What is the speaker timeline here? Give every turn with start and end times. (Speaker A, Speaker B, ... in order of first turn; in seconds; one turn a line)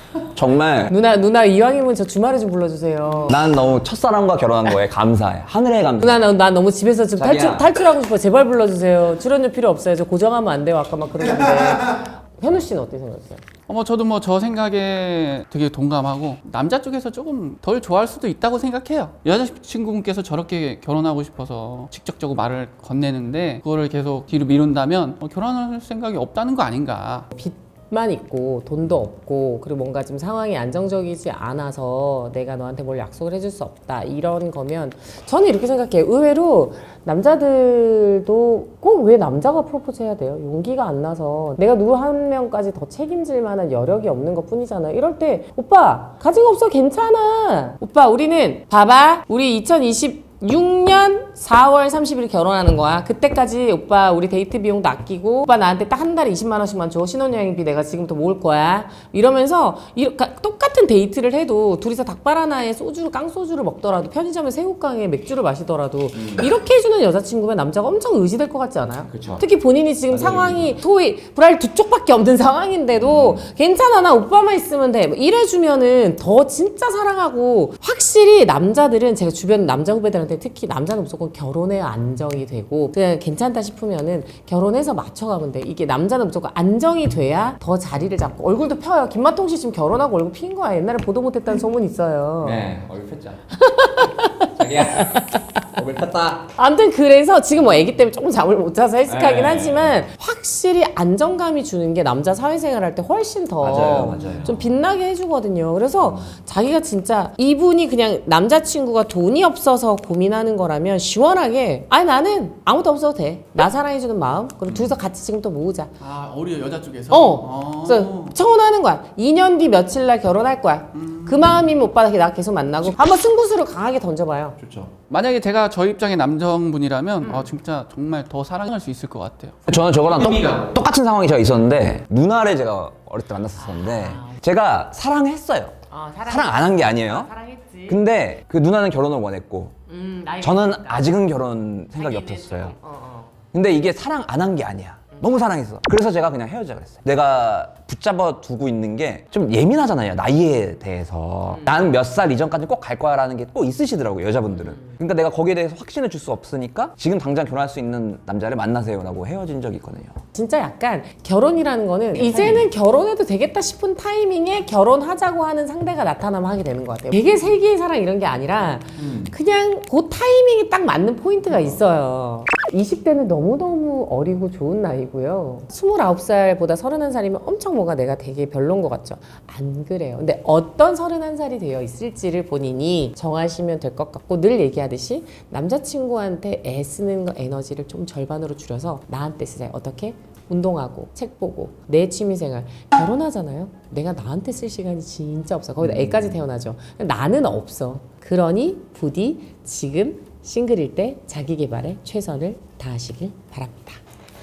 Speaker A: 0.3-0.9
Speaker B: 0.8-3.5
Speaker A: 3.2-6.2
Speaker B: 6.0-13.4
Speaker A: 7.2-7.7
Speaker C: 13.7-27.3
Speaker B: 27.3-92.6
Speaker A: 66.1-66.5
Speaker A: 69.1-69.4
Speaker A: 70.1-70.8
Speaker A: 73.0-73.4
Speaker A: 92.4-93.4
Speaker B: 93.5-95.6
Speaker A: 94.5-95.2
Speaker A: 95.8-96.5
Speaker B: 96.5-115.9
Speaker A: 99.0-100.0
Speaker A: 103.6-104.6
Speaker A: 106.0-106.3
Speaker A: 114.7-115.0
Speaker C: 116.0-118.3
Speaker B: 117.1-124.6
Speaker C: 121.0-121.5
Speaker A: 124.6-124.9
Speaker C: 125.1-129.6
Speaker B: 127.2-127.5
Speaker A: 129.7-137.3
Speaker B: 133.6-134.4
Speaker B: 135.9-138.0
Speaker A: 137.9-139.8
Speaker B: 139.9-141.2
Speaker A: 140.4-142.7
Speaker B: 141.9-143.3
Speaker A: 143.5-160.2
Speaker B: 151.5-151.8
Speaker B: 160.3-204.0
Speaker A: 169.0-169.3
Speaker A: 195.8-196.4